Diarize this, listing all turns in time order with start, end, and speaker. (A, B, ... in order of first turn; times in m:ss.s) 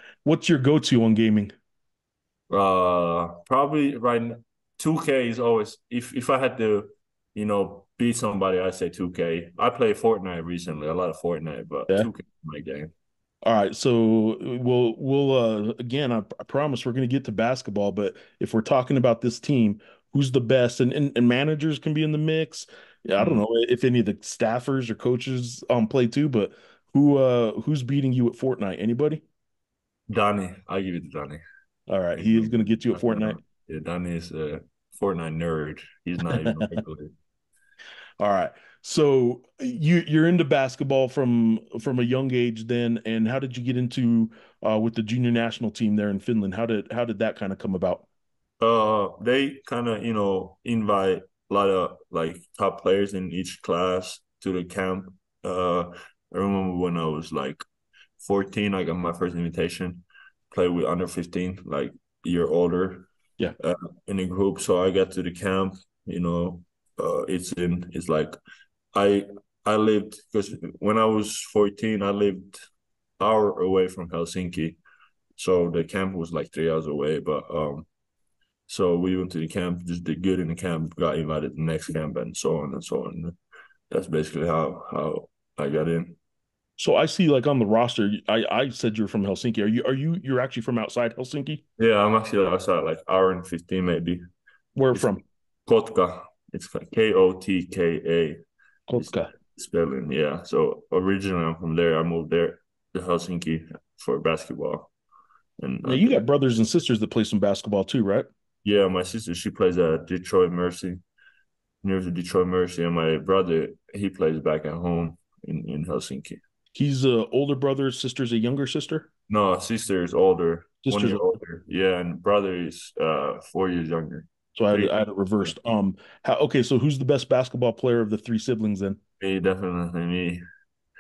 0:00.2-0:01.5 A
0:02.5-0:12.9 B
0:13.4-0:29.2 A
0:23.2-0:23.4 B
0:30.1-0:31.4 B
0:31.9-0:33.4 A
0:32.2-0:37.1 B
0:36.4-0:36.7 A
0:38.2-0:48.1 A
0:48.6-0:57.6 B
0:58.2-1:08.4 B
1:09.0-1:12.6 B
1:13.2-1:14.8 B
1:15.4-1:17.9 B
1:18.7-1:23.4 B
1:23.9-1:26.2 B
1:26.8-1:31.6 A
1:31.8-1:34.2 B
1:34.8-1:35.2 A
1:35.7-1:38.4 B
1:38.9-1:39.3 A
1:39.0-1:44.9 B
1:45.6-1:46.2 B
1:45.8-1:48.3 A
1:48.6-1:51.0 B
1:51.8-1:56.4 B
1:56.8-1:59.1 A
1:59.3-2:05.5 B
2:00.8-2:01.3 A
2:04.6-2:09.0 A
2:09.2-2:10.4 B